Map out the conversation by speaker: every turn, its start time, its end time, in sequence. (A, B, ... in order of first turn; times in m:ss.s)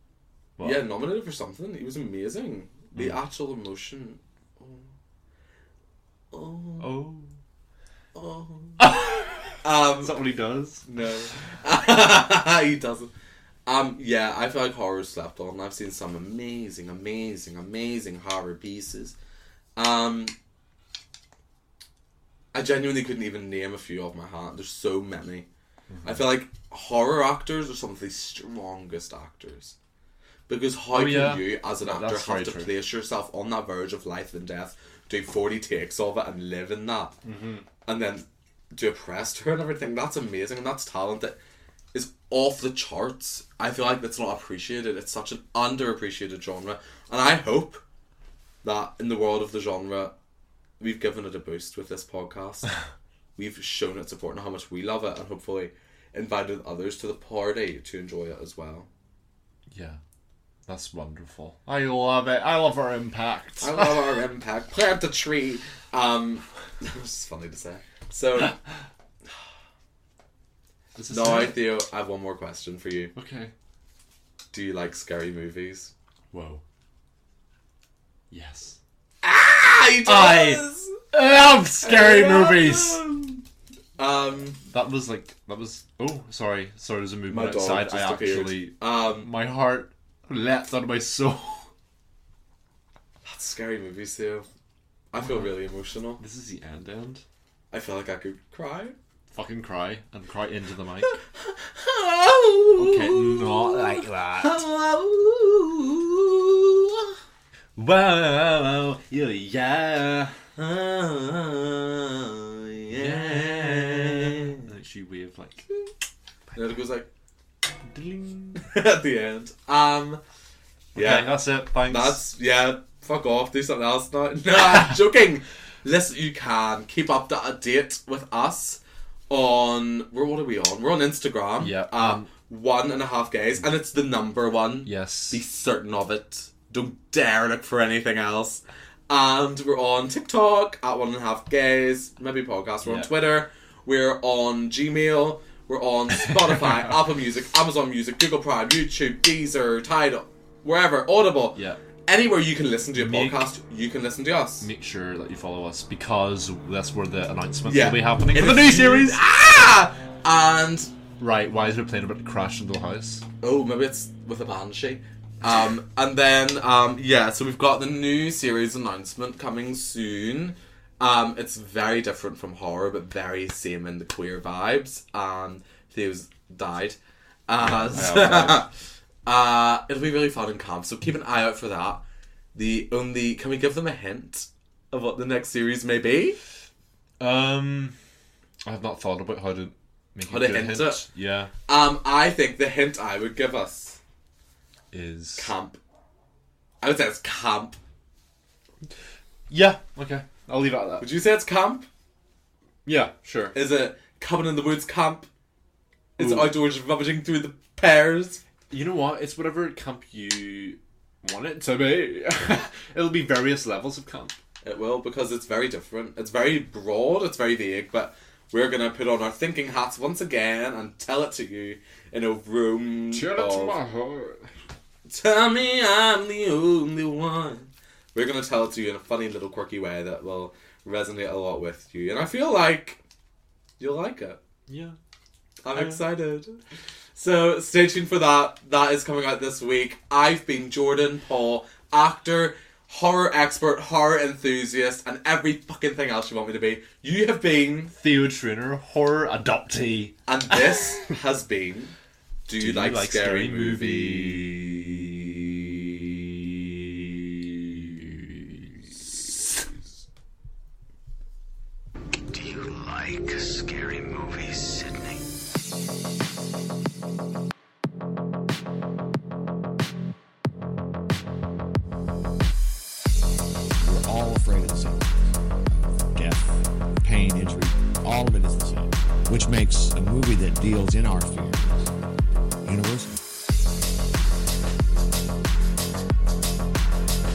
0:00.6-0:00.9 A
0:00.6-0:04.9 B
0:03.0-0:03.2 A
0:06.3-0:07.1 B
0:06.8-0:07.3 A
0:08.1-0:08.9 B
0:08.8-0:10.8 A
0:09.6-0:10.2 B
0:10.8-0:13.1 B
0:13.7-0:19.1 B
0:19.8-0:20.3 B
0:22.5-0:25.5 B
0:25.9-0:26.3 A
0:26.0-0:29.8 B
0:30.5-0:37.2 B
0:30.9-0:32.7 A
0:37.2-0:37.7 A
0:37.9-0:41.4 B
0:41.9-0:47.8 B
0:48.6-0:50.1 B
0:50.8-0:52.7 B
0:53.4-0:58.9 B
0:59.7-1:00.0 A
1:00.7-1:04.2 A
1:03.6-1:08.6 B
1:11.0-1:11.7 A
1:11.1-1:13.1 B
1:13.1-1:13.5 A
1:14.5-1:15.9 B
1:16.3-1:16.6 A
1:18.3-1:18.8 A
1:19.2-1:21.0 B
1:20.0-1:23.0 A
1:21.8-1:23.4 B
1:24.0-1:24.6 B
1:24.6-1:31.7 A
1:27.3-1:29.3 B
1:33.2-1:34.5 B
1:35.1-1:36.2 B
1:35.2-1:35.6 A
1:36.2-1:37.2 A
1:37.7-1:39.0 B
1:39.3-1:41.1 A
1:41.0-1:47.1 B
1:42.8-1:44.6 A
1:47.8-1:50.4 A
1:50.6-1:54.6 B
1:52.9-1:55.7 A
1:56.6-1:57.1 B
1:57.9-1:58.6 A
1:58.6-2:00.2 B
2:01.0-2:02.3 A
2:01.0-2:34.7 B
2:11.6-2:12.3 A
2:14.8-2:15.4 A
2:22.8-2:23.2 A
2:33.0-2:33.5 A
2:34.6-2:39.2 A
2:37.7-2:40.9 B
2:41.2-2:43.2 A
2:43.4-2:58.7 B
2:57.6-2:58.6 A
2:59.3-3:02.0 B
3:02.6-3:06.4 B
3:07.2-3:08.0 A
3:08.6-3:11.5 A
3:10.2-3:11.1 B
3:11.7-3:14.0 B
3:14.9-3:15.5 A
3:15.4-3:15.8 B
3:16.8-3:17.8 B
3:19.5-3:21.1 A
3:21.0-3:21.9 B
3:22.8-3:23.6 A
3:23.5-3:25.3 B
3:26.2-3:28.4 B
3:26.2-3:26.6 A
3:28.7-3:34.4 A
3:34.6-3:43.8 B
3:43.1-3:44.5 A
3:45.1-3:53.0 B
3:53.8-3:54.4 B
3:54.7-3:55.0 A
3:55.6-3:56.6 B
3:55.7-3:56.0 A
3:57.2-4:07.9 B
4:08.0-4:10.2 A
4:10.3-4:11.9 B
4:12.5-4:15.0 B
4:12.6-4:15.0 A
4:17.6-4:19.7 A
4:22.3-4:25.2 C
4:33.8-4:41.8 C
4:42.6-4:43.2 C